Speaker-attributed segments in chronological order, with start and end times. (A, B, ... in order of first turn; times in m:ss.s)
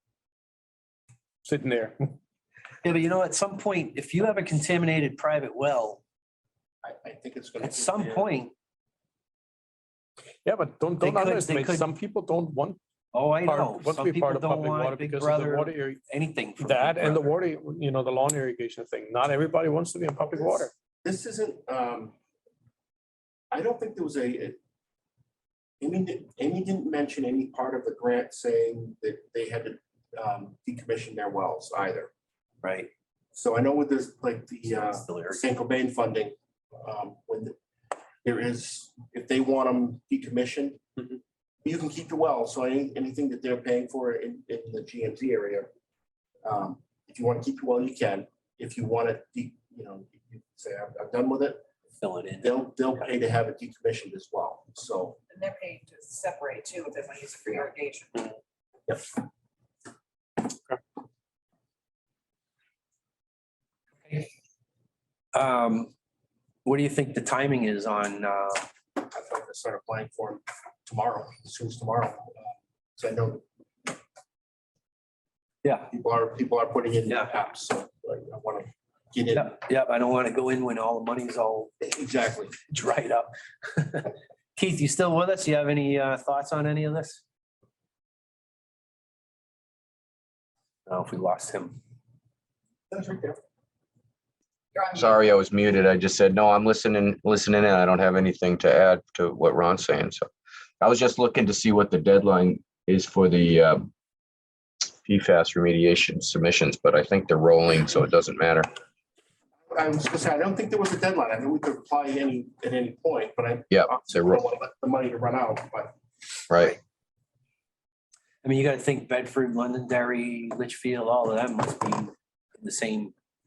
0:01.4-0:02.0 A
0:02.8-0:06.0 B
0:06.8-0:08.3 C
0:07.6-0:08.5 B
0:10.4-0:12.8 A
0:11.0-0:11.9 B
0:13.1-0:17.3 B
0:13.4-0:16.0 A
0:16.6-0:20.7 A
0:20.3-0:22.2 C
0:23.5-0:24.6 C
0:25.8-0:32.1 C
0:32.6-0:32.9 B
0:33.3-0:37.6 C
0:34.8-0:35.5 B
0:38.2-0:40.8 C
0:41.6-0:45.7 C
0:46.4-0:51.6 C
0:52.0-0:52.5 B
0:52.4-0:55.2 C
0:55.3-0:58.3 D
1:05.4-1:05.9 B
1:06.6-1:08.6 B
1:09.0-1:13.4 C
1:15.6-1:15.9 B
1:15.9-1:19.6 C
1:17.1-1:17.3 B
1:19.3-1:21.7 B
1:21.8-1:22.6 C
1:22.7-1:27.2 B
1:30.9-1:31.8 B
1:32.9-1:33.4 C
1:34.8-1:35.1 D
1:34.9-1:40.3 E
1:40.8-1:43.9 E
1:45.0-1:48.7 E
1:49.6-1:55.9 C
1:53.7-1:54.4 E
1:56.5-1:56.8 E
1:58.4-2:03.1 B